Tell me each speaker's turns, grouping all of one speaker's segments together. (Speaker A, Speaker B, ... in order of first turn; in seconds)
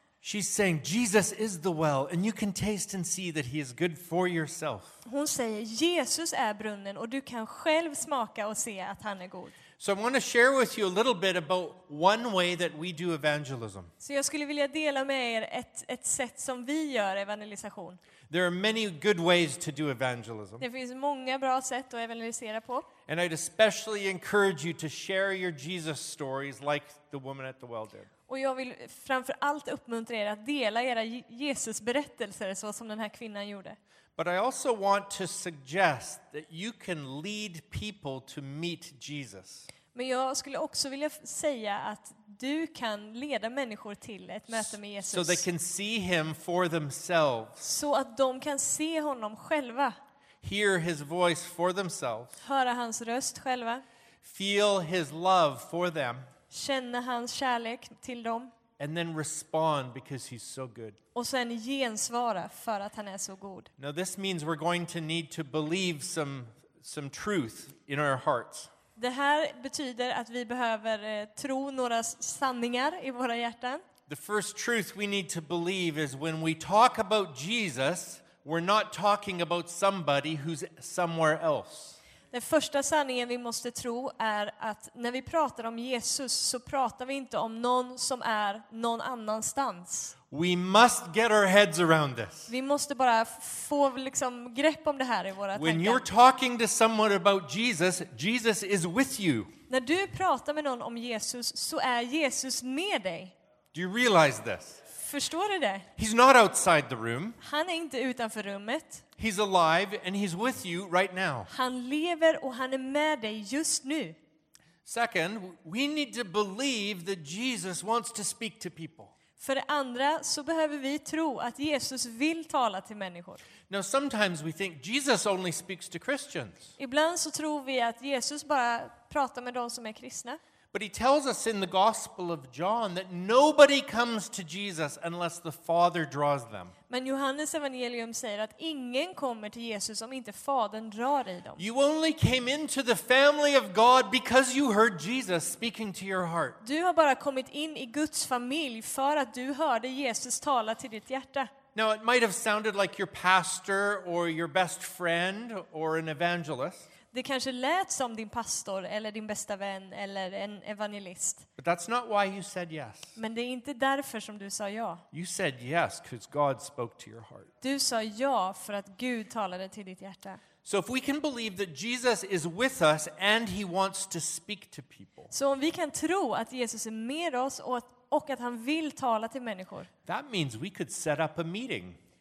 Speaker A: 0.2-5.0, 9.8-13.9, 18.3-20.6, 23.1-28.1, 34.2-39.7, 44.5-47.6, 50.4-52.4, 54.2-56.2, 58.8-61.0, 63.8-68.7, 74.1-82.0, 90.3-92.5, 95.5-99.5, 103.7-104.8, 106.0-107.4, 109.2-111.5, 114.8-119.1, 123.7-126.7, 130.7-136.7, 141.6-146.6, 151.8-156.9, 161.6-163.2, 165.1-167.5, 170.6-175.3, 180.1-182.0
Speaker B: 5.0-9.6, 14.0-18.0, 20.6-22.9, 28.3-33.8, 39.9-45.5, 47.6-50.0, 52.4-53.8, 56.5-58.5, 61.1-63.7, 69.0-73.8, 82.3-90.2, 92.5-96.0, 99.7-103.3, 104.9-105.9, 107.4-109.0, 111.5-114.2, 119.4-123.4, 126.8-130.4, 136.9-141.6, 146.6-151.5, 157.1-161.5, 163.2-165.0, 167.6-170.4, 175.3-179.9